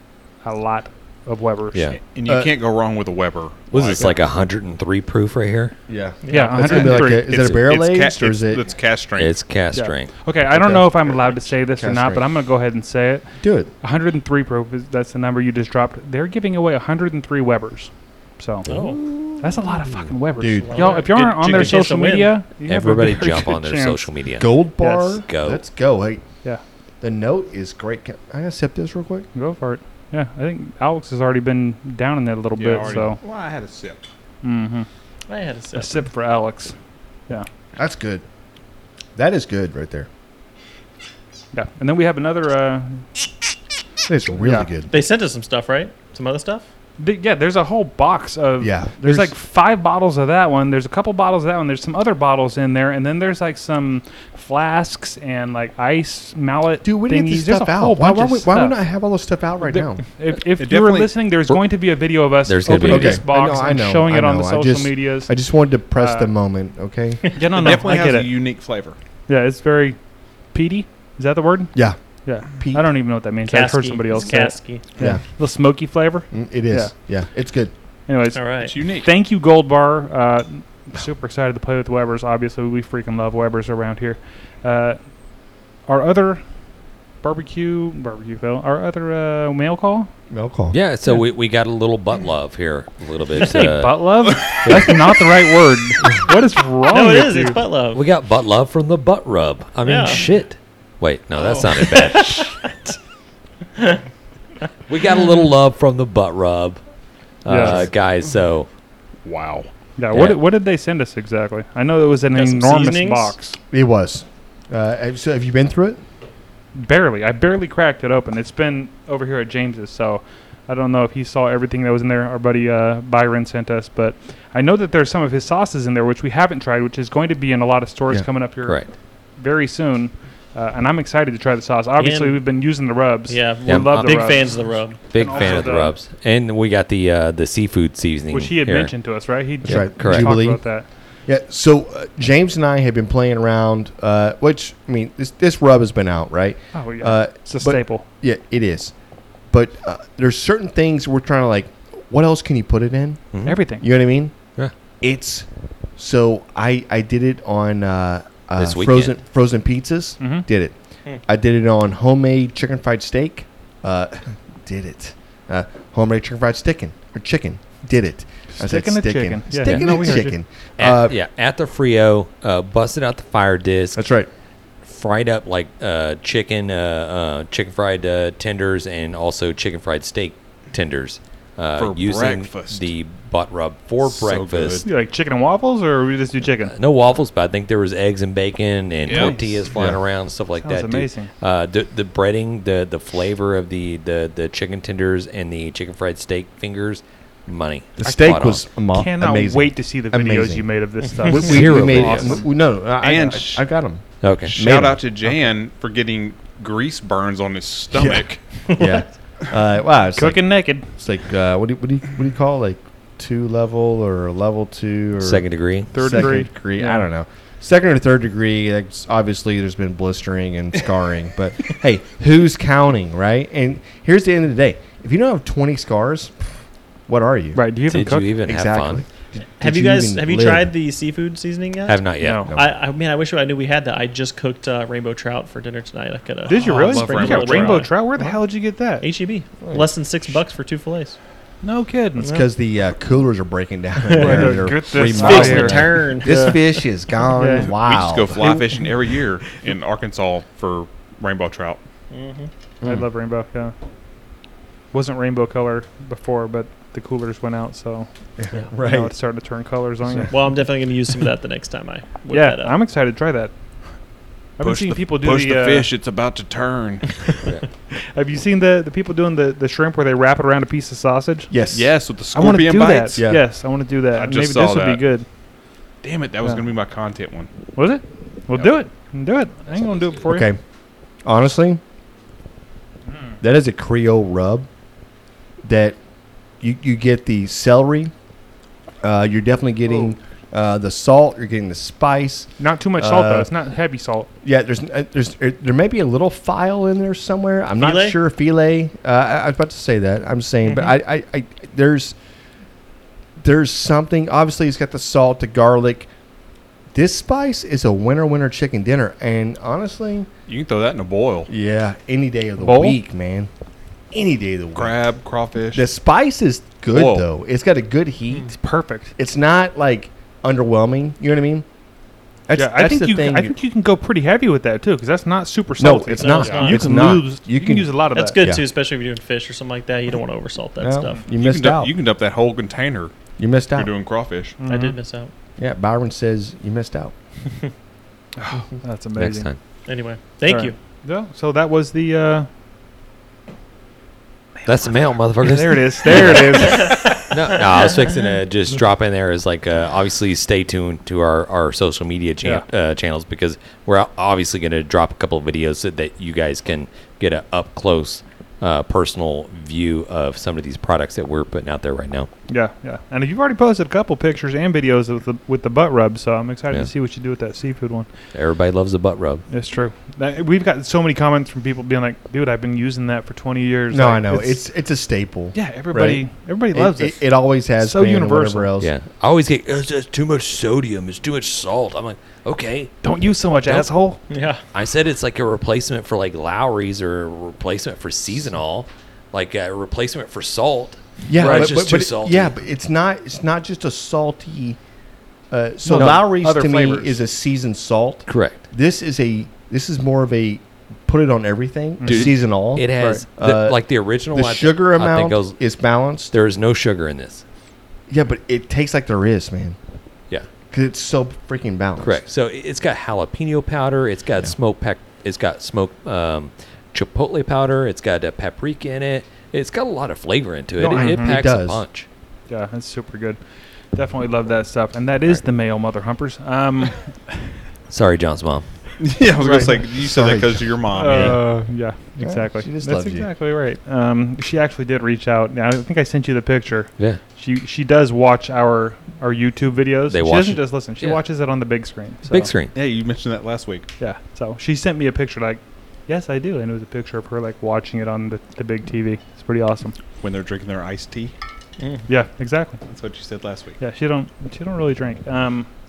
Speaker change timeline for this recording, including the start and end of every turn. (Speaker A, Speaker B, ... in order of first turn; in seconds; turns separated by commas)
Speaker A: 0.4-1.8, Speaker B: 1.7-2.0, Speaker C: 1.9-4.2, Speaker D: 2.3-2.5, Speaker B: 3.7-5.8, Speaker D: 5.9-8.7, Speaker E: 6.2-6.5, Speaker A: 6.3-7.3, Speaker C: 6.3-9.5, Speaker B: 9.2-10.1, Speaker A: 9.7-18.7, Speaker D: 10.5-12.3, Speaker D: 13.4-13.7, Speaker E: 18.7-19.0, Speaker D: 18.7-19.2, Speaker A: 19.4-24.1, Speaker D: 20.4-20.9, Speaker E: 20.7-22.4, Speaker C: 21.3-21.7, Speaker B: 22.6-24.6, Speaker D: 24.4-26.2, Speaker A: 24.8-25.2, Speaker B: 25.2-25.6, Speaker D: 27.0-29.3, Speaker A: 29.4-33.2, Speaker C: 32.6-34.0, Speaker A: 34.4-34.9, Speaker E: 35.3-36.0, Speaker A: 35.8-36.7, Speaker D: 37.8-38.2, Speaker D: 39.2-40.1, Speaker A: 41.5-43.0, Speaker D: 44.0-44.9, Speaker A: 44.4-44.7, Speaker E: 44.9-46.7, Speaker A: 47.0-58.8, Speaker D: 48.6-49.3, Speaker D: 56.8-60.0, Speaker A: 59.7-65.3, Speaker C: 60.5-61.2, Speaker B: 62.4-63.2, Speaker D: 62.8-67.3, Speaker A: 66.0-66.3, Speaker A: 67.4-68.3, Speaker C: 67.5-69.0, Speaker A: 69.3-70.0, Speaker A: 70.5-76.9, Speaker D: 71.8-72.8, Speaker E: 73.5-74.8, Speaker D: 76.3-77.7, Speaker A: 78.1-85.0, Speaker E: 78.3-78.7, Speaker C: 78.6-79.1, Speaker A: 85.9-86.4, Speaker A: 87.2-90.1, Speaker D: 90.3-90.8, Speaker B: 90.7-95.0, Speaker A: 93.4-97.6, Speaker E: 96.9-98.0, Speaker B: 97.9-102.7, Speaker E: 99.8-100.2, Speaker E: 101.8-102.9, Speaker B: 104.9-106.8, Speaker B: 107.4-108.7, Speaker A: 107.5-107.8, Speaker C: 109.2-109.7, Speaker A: 110.0-113.6, Speaker B: 110.1-110.4, Speaker E: 112.3-113.3, Speaker D: 113.7-116.0, Speaker A: 116.8-135.9, Speaker B: 128.6-128.9, Speaker E: 132.0-132.5, Speaker E: 133.3-135.2, Speaker B: 133.7-134.6, Speaker B: 135.1-140.5, Speaker A: 138.3-140.9, Speaker D: 139.7-148.9, Speaker A: 146.7-148.1, Speaker D: 149.5-154.4, Speaker B: 153.3-153.6, Speaker A: 153.4-153.8, Speaker D: 155.0-155.5, Speaker D: 156.0-171.2, Speaker B: 158.6-159.2, Speaker A: 160.2-160.5, Speaker A: 168.6-170.4, Speaker B: 169.7-170.0, Speaker B: 170.8-174.0, Speaker D: 173.9-174.3, Speaker B: 174.8-184.9, Speaker C: 181.8-182.9, Speaker C: 184.0-184.8, Speaker A: 184.8-186.7, Speaker B: 186.7-198.7, Speaker C: 189.1-190.0, Speaker A: 189.1-189.5, Speaker A: 190.6-191.3, Speaker D: 198.0-205.2, Speaker A: 198.9-202.5, Speaker B: 201.3-202.4, Speaker C: 203.0-203.7, Speaker B: 204.2-204.6, Speaker C: 204.5-208.4, Speaker D: 207.9-226.5, Speaker E: 208.7-209.0, Speaker A: 210.2-210.9, Speaker B: 215.2-216.1, Speaker A: 215.9-217.1, Speaker D: 227.1-227.7, Speaker A: 227.6-228.3, Speaker B: 227.9-229.1, Speaker D: 228.4-230.7, Speaker E: 229.6-237.9, Speaker B: 231.9-232.5, Speaker A: 232.2-232.5, Speaker A: 236.5-239.1, Speaker C: 236.5-237.9, Speaker E: 239.0-241.2, Speaker D: 239.6-239.9, Speaker A: 241.6-242.3, Speaker D: 242.2-248.5, Speaker E: 242.2-242.5, Speaker E: 244.1-246.7, Speaker A: 244.2-246.1, Speaker A: 247.4-247.7, Speaker C: 247.7-251.8, Speaker E: 252.1-252.5, Speaker A: 252.8-253.7, Speaker A: 254.9-258.1, Speaker D: 258.4-259.1, Speaker A: 258.8-260.5, Speaker E: 260.3-262.8, Speaker A: 262.3-263.5, Speaker A: 264.6-265.9, Speaker C: 264.6-267.4, Speaker A: 268.1-271.5, Speaker D: 271.5-271.9, Speaker C: 271.7-273.3, Speaker A: 272.3-275.2, Speaker D: 273.2-273.4, Speaker C: 274.1-275.0, Speaker C: 276.0-277.5, Speaker A: 277.8-280.5, Speaker D: 280.3-280.6, Speaker D: 281.2-281.8, Speaker D: 283.4-284.7, Speaker D: 285.6-286.0, Speaker D: 286.6-288.1, Speaker D: 289.0-293.5, Speaker A: 292.6-294.3, Speaker D: 294.4-302.2, Speaker E: 297.8-298.2, Speaker E: 300.6-300.9, Speaker D: 303.4-306.1, Speaker D: 306.9-310.3, Speaker C: 310.5-311.5, Speaker D: 311.5-313.5, Speaker A: 312.6-313.0, Speaker D: 314.1-315.0, Speaker C: 314.8-315.9, Speaker D: 315.7-318.5, Speaker C: 316.9-317.3, Speaker A: 318.5-319.1, Speaker D: 319.2-321.7, Speaker D: 322.5-323.6, Speaker A: 322.6-328.4, Speaker D: 325.8-328.6, Speaker E: 326.4-326.8, Speaker E: 328.1-331.2, Speaker D: 330.8-331.9, Speaker C: 331.3-333.1, Speaker D: 333.4-333.9, Speaker C: 333.8-334.6, Speaker A: 334.6-335.0, Speaker E: 334.6-335.3, Speaker D: 335.6-337.1, Speaker A: 338.4-339.5, Speaker B: 339.1-339.6, Speaker E: 339.9-340.8, Speaker A: 340.4-342.5, Speaker B: 344.6-362.3, Speaker A: 345.4-347.2, Speaker E: 346.6-347.2, Speaker A: 362.5-368.1, Speaker B: 368.3-369.4, Speaker A: 369.5-374.6, Speaker D: 373.9-378.9, Speaker A: 375.5-378.7, Speaker B: 378.8-382.9, Speaker A: 383.0-384.2, Speaker B: 383.6-383.9, Speaker E: 384.3-384.6, Speaker B: 384.7-392.5, Speaker D: 391.3-394.8, Speaker A: 391.4-391.7, Speaker D: 395.5-406.3, Speaker A: 395.9-397.2, Speaker B: 398.3-398.7, Speaker A: 402.0-402.3, Speaker B: 402.1-405.6, Speaker A: 403.0-403.2, Speaker B: 406.3-407.4, Speaker D: 408.1-409.8, Speaker D: 410.7-412.2, Speaker B: 412.0-422.1, Speaker D: 420.8-421.8, Speaker A: 420.9-421.3, Speaker A: 422.5-423.4, Speaker A: 423.9-427.5, Speaker B: 427.9-428.7, Speaker C: 429.0-431.4, Speaker D: 429.4-431.4, Speaker A: 430.9-442.5, Speaker D: 432.2-433.3, Speaker B: 440.1-441.2, Speaker B: 442.3-442.8, Speaker C: 442.7-443.9, Speaker A: 444.0-449.9, Speaker C: 450.2-451.3, Speaker E: 451.8-452.1, Speaker A: 452.1-452.8, Speaker C: 452.9-453.8, Speaker A: 453.8-455.7